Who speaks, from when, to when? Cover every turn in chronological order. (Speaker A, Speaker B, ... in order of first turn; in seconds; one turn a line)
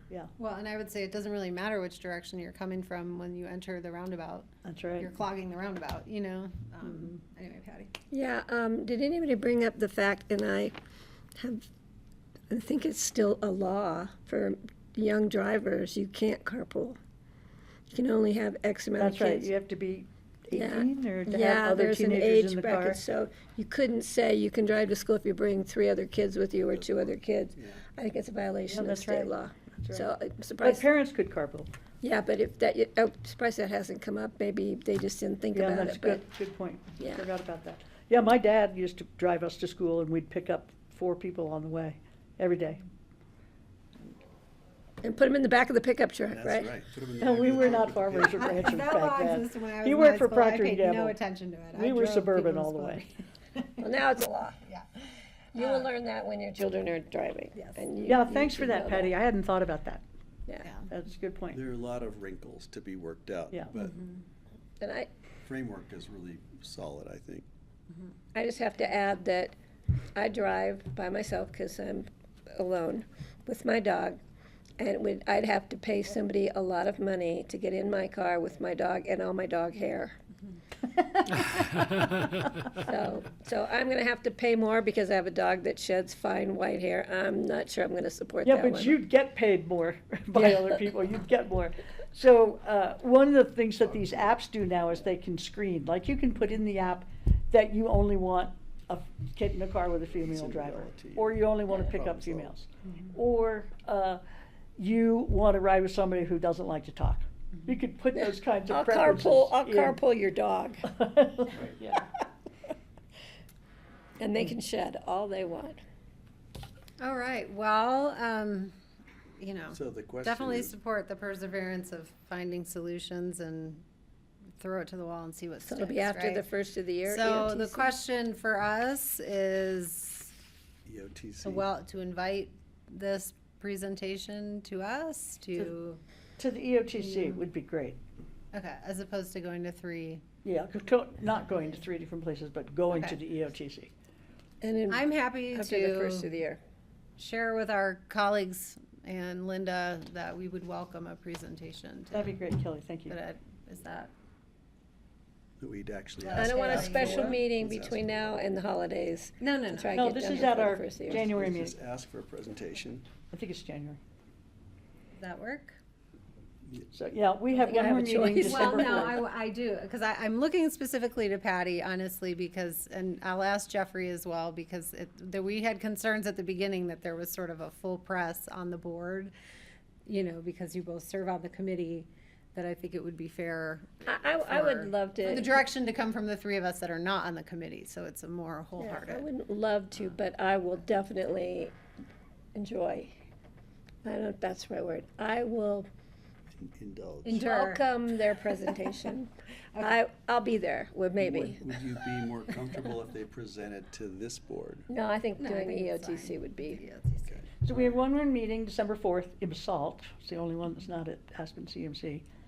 Speaker A: 0.4-7.9
Speaker B: 4.6-5.1
Speaker C: 8.1-10.7
Speaker C: 11.4-11.7
Speaker C: 12.5-17.0
Speaker C: 17.9-19.5
Speaker B: 19.0-23.0
Speaker C: 20.5-30.8
Speaker D: 26.7-27.8
Speaker B: 28.6-31.7
Speaker C: 32.0-36.2
Speaker B: 35.5-42.8
Speaker C: 37.0-37.2
Speaker C: 45.0-46.7
Speaker D: 46.3-48.5
Speaker B: 47.2-51.1
Speaker A: 48.3-53.1
Speaker B: 51.7-53.1
Speaker C: 53.8-59.1
Speaker A: 55.5-55.9
Speaker B: 58.0-60.0
Speaker B: 60.9-61.6
Speaker D: 61.5-64.0
Speaker A: 63.8-64.2
Speaker C: 64.8-65.1
Speaker D: 65.4-67.5
Speaker C: 68.3-69.5
Speaker C: 70.1-74.2
Speaker C: 74.8-80.2
Speaker B: 81.2-81.6
Speaker C: 82.7-89.0
Speaker B: 88.4-104.2
Speaker C: 90.3-90.7
Speaker D: 93.9-94.3
Speaker D: 100.2-102.6
Speaker B: 104.8-110.0
Speaker C: 108.1-110.9
Speaker B: 110.9-112.0
Speaker C: 114.2-115.8
Speaker A: 117.0-118.7
Speaker A: 119.4-123.8
Speaker D: 119.7-120.7
Speaker A: 124.5-126.5
Speaker C: 125.6-127.9
Speaker A: 127.0-130.3
Speaker D: 130.8-131.7
Speaker A: 131.4-136.0
Speaker B: 136.4-138.0
Speaker A: 138.5-140.2
Speaker B: 140.4-143.9
Speaker A: 142.9-143.2
Speaker C: 144.6-146.6
Speaker A: 144.9-146.4
Speaker A: 147.2-152.3
Speaker B: 152.1-153.2
Speaker A: 153.1-154.1
Speaker D: 155.6-158.4
Speaker A: 156.2-157.4
Speaker C: 156.3-161.3
Speaker A: 159.4-160.1
Speaker B: 159.9-161.7
Speaker D: 161.1-163.1
Speaker B: 163.3-164.0
Speaker A: 165.1-165.8
Speaker B: 166.9-169.2
Speaker C: 167.6-169.2
Speaker A: 168.2-179.3
Speaker A: 180.0-189.2
Speaker C: 184.1-185.5
Speaker C: 188.8-191.7
Speaker C: 192.5-193.1
Speaker C: 194.0-195.9
Speaker D: 196.6-197.4
Speaker A: 197.2-197.9
Speaker C: 197.3-201.8
Speaker D: 201.2-204.9
Speaker C: 204.9-206.8
Speaker A: 205.4-207.3
Speaker B: 207.6-212.2